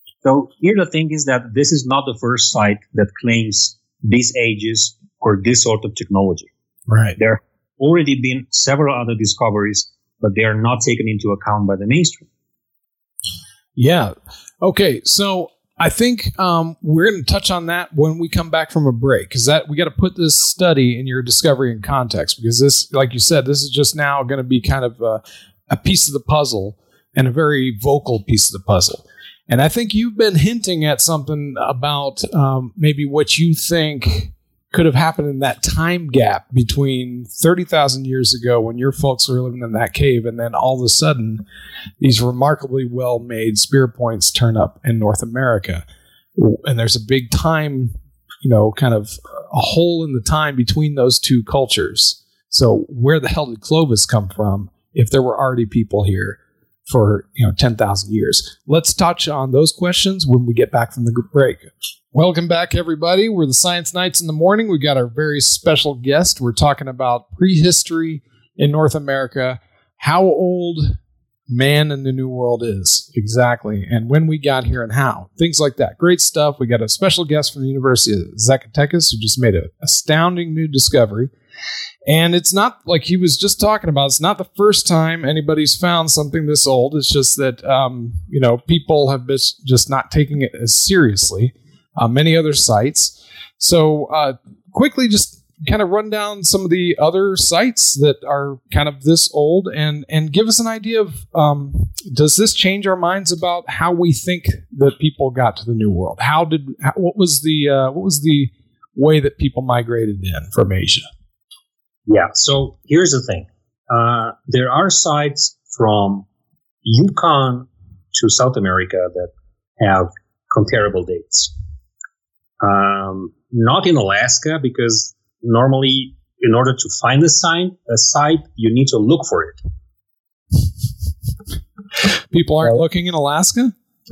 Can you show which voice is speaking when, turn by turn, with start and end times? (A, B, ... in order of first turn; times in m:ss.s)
0:00.2-0:06.5 A
0:06.9-0:07.2 B
0:07.2-0:12.2 A
0:13.8-0:41.4 B
0:42.0-0:45.8 B
0:46.4-1:11.0 B
1:11.5-1:21.3 B
1:22.1-1:51.1 B
1:52.1-1:56.2 A
1:56.8-2:01.5 A
2:02.6-2:09.6 A
2:12.3-2:13.7 B